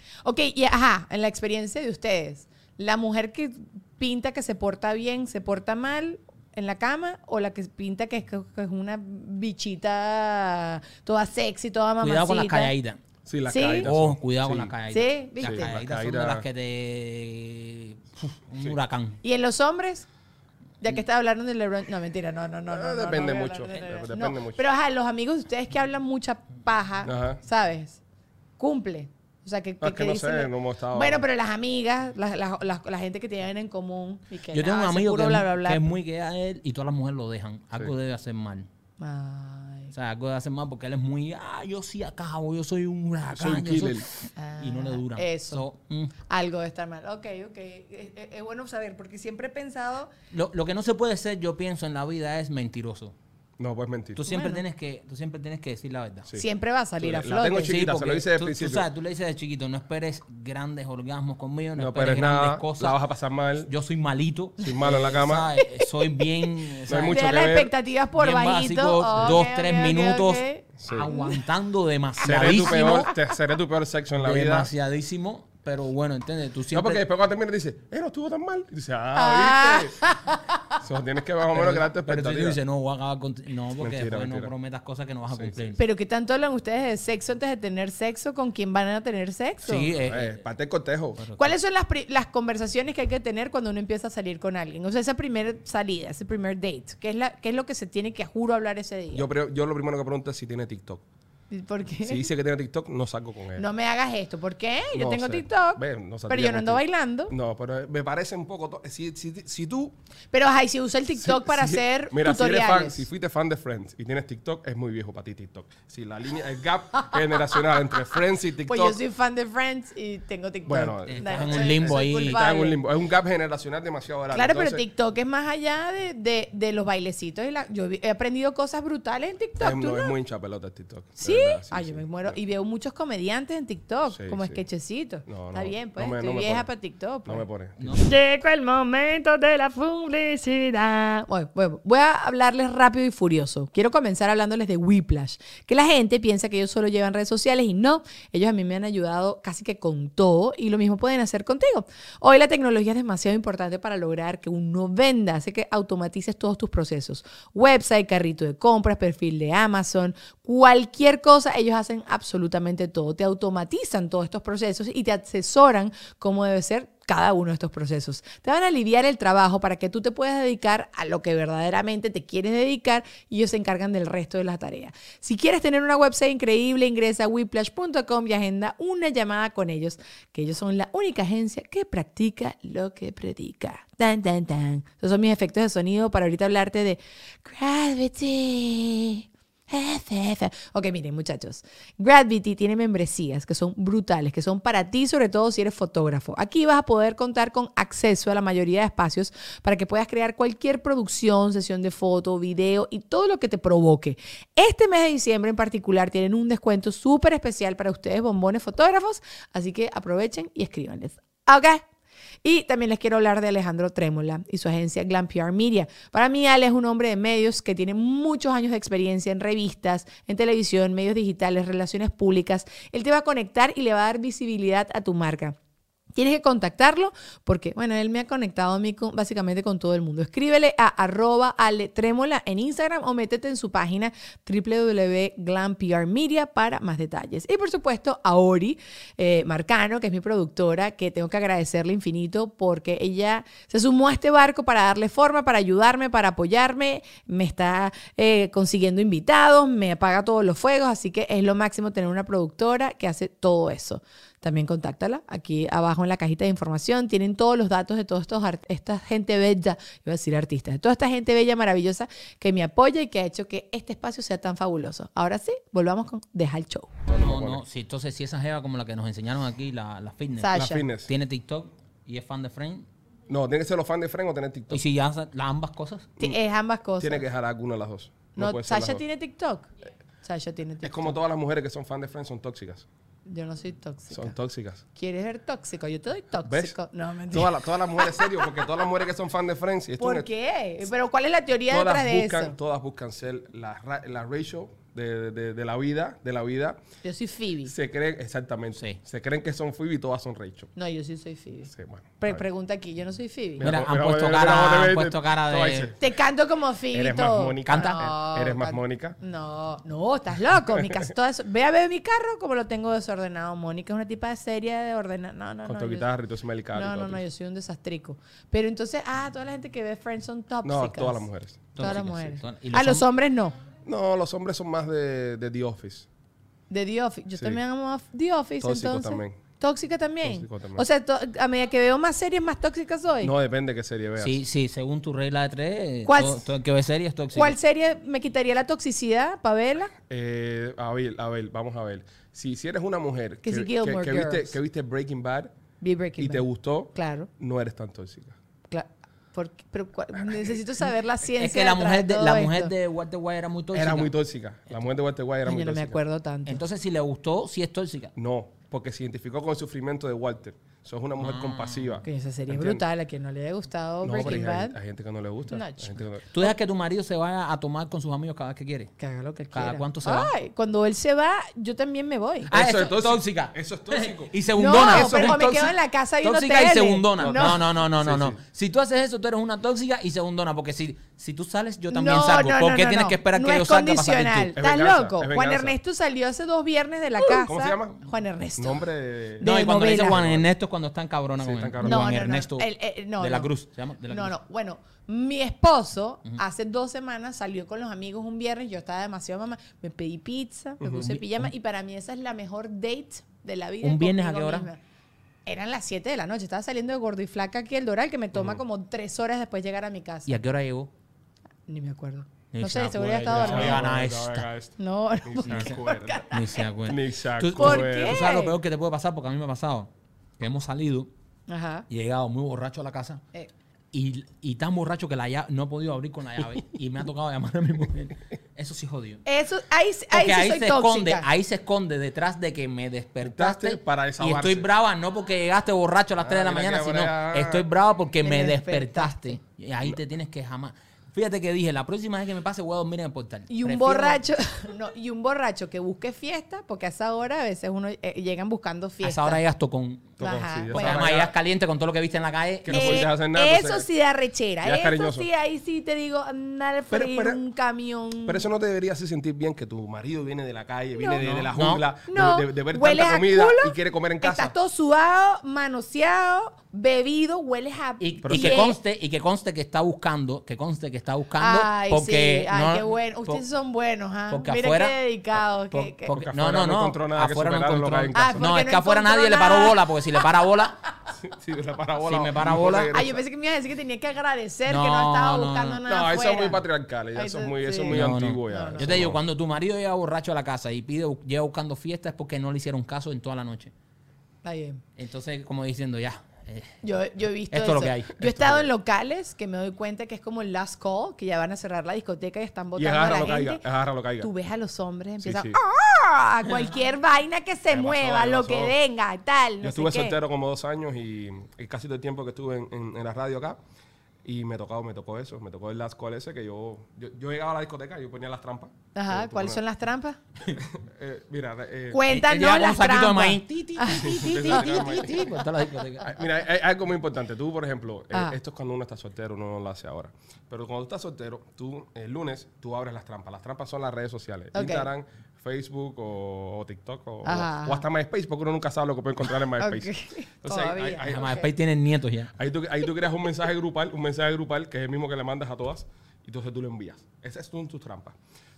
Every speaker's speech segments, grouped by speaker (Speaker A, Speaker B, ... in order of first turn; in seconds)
Speaker A: 0.2-12.7, 13.5-13.9, 14.9-15.7, 19.2-20.1, 20.8-28.0, 28.6-35.9, 39.0-39.9, 44.4-45.6, 46.3-50.1, 54.3-54.6, 56.4-57.8, 65.6-66.5, 67.1-71.4, 72.2-73.1, 79.2-80.7, 85.8-89.9, 91.4-99.3, 101.5-102.3, 103.6-107.3, 110.3-113.1, 118.6-122.8, 124.3-130.1, 131.2-137.4, 138.0-211.8, 212.4-225.6, 226.2-267.0, 270.4-270.8, 276.2-277.2, 278.4-279.7, 280.2-281.2, 283.3-284.4, 284.9-288.5, 290.0-292.6, 297.0-297.7, 300.8-303.7, 306.0-316.1, 316.7-321.3, 321.8-323.6, 326.7-333.3, 336.1-336.5, 337.3-339.9, 343.4-344.6, 345.8-347.3, 348.7-352.7, 355.5-356.6, 362.0-364.8, 365.5-366.5, 369.0-372.5, 374.6-377.6, 381.9-388.8, 389.4-390.2, 391.8-393.5, 394.1-404.8, 405.5-410.4, 411.7-413.9, 414.8-416.7, 417.6-418.5, 421.5-421.9, 429.2-431.3, 438.2-439.4, 443.5-449.4, 450.2-451.1, 452.7-458.4, 461.0-461.2, 462.1-468.8, 471.4-476.2, 478.1-480.3, 482.9-486.6, 487.1-489.1, 494.4-494.8, 496.8-503.6, 504.2-510.2, 519.0-520.2, 521.9-525.2, 534.5-534.9, 537.2-537.9, 539.6-541.5
Speaker B: 12.0-13.0, 13.8-19.2, 34.5-38.7, 39.9-46.1, 50.3-53.1, 54.2-56.3, 57.6-63.0, 63.6-67.5, 68.2-73.1, 74.2-77.0, 81.5-85.8, 89.6-90.4, 91.2-91.5, 121.1-122.4, 137.8-138.1, 267.1-272.9, 274.7-276.1, 303.6-305.9, 307.7-308.0, 321.8-323.1, 334.2-337.6, 351.4-354.1, 356.5-358.1, 361.2-362.0, 366.3-368.9, 369.5-370.3, 372.5-375.7, 376.2-384.5, 389.4-394.4, 401.0-401.5, 403.8-404.7, 410.3-410.9, 412.5-414.5, 415.4-415.8, 416.3-421.1, 421.9-423.2, 423.9-429.2, 430.1-444.2, 449.0-450.2, 450.7-453.1, 461.2-461.9, 468.0-473.4, 474.3-480.8, 482.0-482.9, 484.7-485.8, 487.9-493.7, 495.0-496.8, 497.5-498.6, 522.1-526.1, 541.0-542.3
Speaker C: 13.3-14.7, 15.4-16.5, 22.7-24.6, 27.1-27.4, 29.8-31.2, 43.3-44.1, 53.6-54.3, 57.0-58.9, 61.8-63.7, 64.6-65.5, 66.9-67.7, 70.8-71.1, 72.2-74.7, 76.7-80.0, 80.8-82.6, 83.8-84.5, 85.3-85.6, 90.0-91.2, 99.1-101.0, 102.0-103.7, 104.9-109.9, 111.2-119.0, 120.7-124.8, 129.6-132.4, 134.1-134.6, 135.3-136.7, 137.3-138.0, 267.1-267.6, 270.5-271.1, 273.3-274.8, 277.0-279.0, 280.8-282.9, 284.1-284.8, 286.4-286.8, 287.3-290.3, 291.7-296.8, 297.6-300.7, 301.7-302.4, 303.6-306.0, 306.9-309.2, 315.7-317.2, 320.6-322.0, 323.9-326.1, 328.6-329.4, 330.2-330.8, 333.2-334.4, 340.1-345.5, 346.2-348.4, 353.7-356.0, 358.1-362.8, 364.0-366.3, 372.5-375.7, 377.2-378.4, 384.6-385.8, 387.4-388.0, 388.6-389.5, 390.0-390.5, 391.4-392.2, 400.8-401.1, 408.3-408.6, 413.3-416.3, 416.9-418.3, 433.2-434.7, 436.2-437.7, 450.2-451.3, 452.6-453.9, 454.6-455.3, 456.9-457.4, 458.3-464.5, 468.2-468.6, 476.1-478.5, 481.1-483.2, 485.9-489.2, 502.8-504.3, 505.2-505.6, 507.7-508.8, 509.6-513.6, 514.2-519.6, 520.5-522.0, 523.9-525.4, 526.0-541.5, 542.4-548.2